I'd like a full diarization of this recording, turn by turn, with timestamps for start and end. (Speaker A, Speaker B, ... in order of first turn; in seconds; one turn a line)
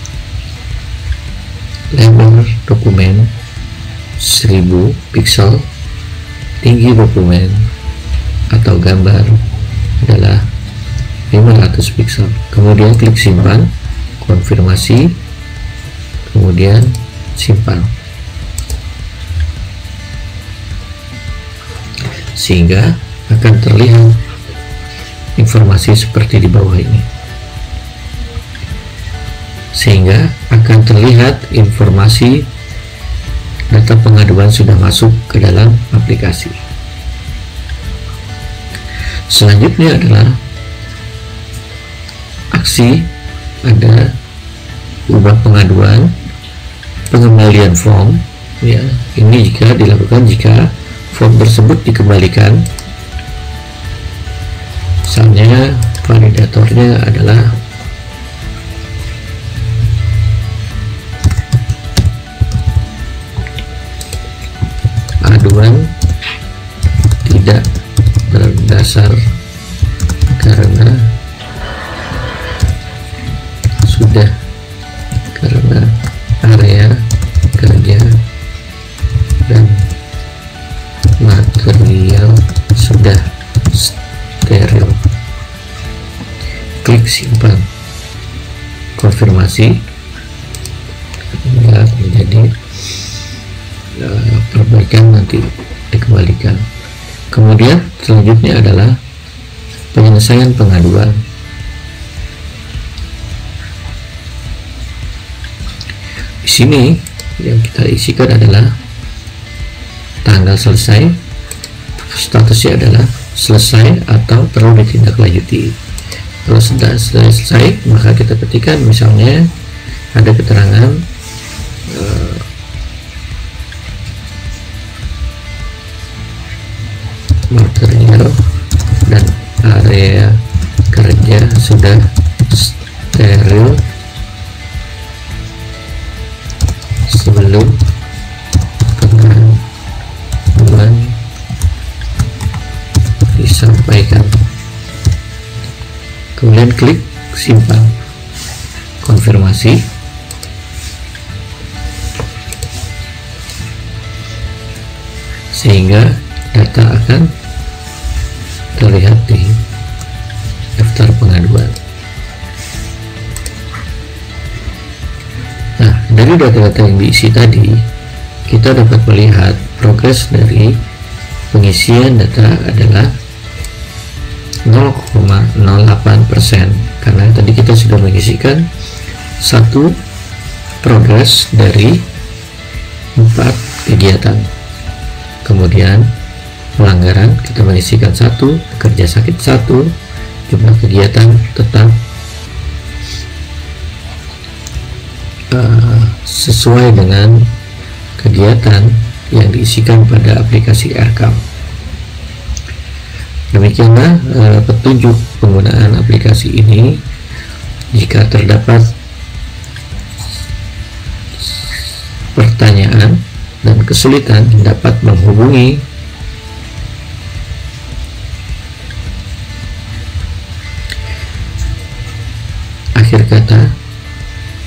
Speaker A: 1.9-3.3
Speaker A: 4.2-5.7
Speaker A: 6.6-7.7
Speaker A: 8.5-9.4
Speaker A: 10.0-10.5
Speaker A: 11.3-15.2
Speaker A: 16.3-17.9
Speaker A: 22.4-24.2
Speaker A: 25.4-27.1
Speaker A: 29.7-32.5
Speaker A: 33.7-36.6
Speaker A: 39.3-40.4
Speaker A: 42.5-43.1
Speaker A: 43.6-44.2
Speaker A: 45.1-46.2
Speaker A: 47.1-52.7
Speaker A: 55.1-57.6
Speaker A: 65.3-65.9
Speaker A: 67.2-67.7
Speaker A: 68.3-69.2
Speaker A: 70.4-71.1
Speaker A: 73.8-74.3
Speaker A: 75.3-78.2
Speaker A: 79.5-79.9
Speaker A: 81.2-85.0
Speaker A: 86.8-87.7
Speaker A: 89.0-89.8
Speaker A: 91.3-92.6
Speaker A: 94.0-96.7
Speaker A: 97.3-99.0
Speaker A: 99.9-101.2
Speaker A: 106.4-108.8
Speaker A: 110.2-111.2
Speaker A: 112.0-115.8
Speaker A: 116.4-119.5
Speaker A: 120.2-121.0
Speaker A: 121.9-122.5
Speaker A: 127.5-128.4
Speaker A: 129.1-133.8
Speaker A: 137.1-137.8
Speaker A: 138.9-139.7
Speaker A: 140.5-141.2
Speaker A: 143.3-144.3
Speaker A: 146.4-147.9
Speaker A: 149.0-149.9
Speaker A: 155.5-157.3
Speaker A: 158.8-159.6
Speaker A: 160.8-161.8
Speaker A: 165.8-167.9
Speaker A: 168.5-170.8
Speaker A: 171.5-173.2
Speaker A: 174.7-178.7
Speaker A: 179.4-180.0
Speaker A: 180.8-182.1
Speaker A: 183.2-184.5
Speaker A: 185.4-186.1
Speaker A: 186.8-189.9
Speaker A: 190.5-192.0
Speaker A: 195.5-197.5
Speaker A: 198.2-201.4
Speaker A: 203.5-207.0
Speaker A: 207.9-208.9
Speaker A: 212.3-215.9
Speaker A: 223.0-223.8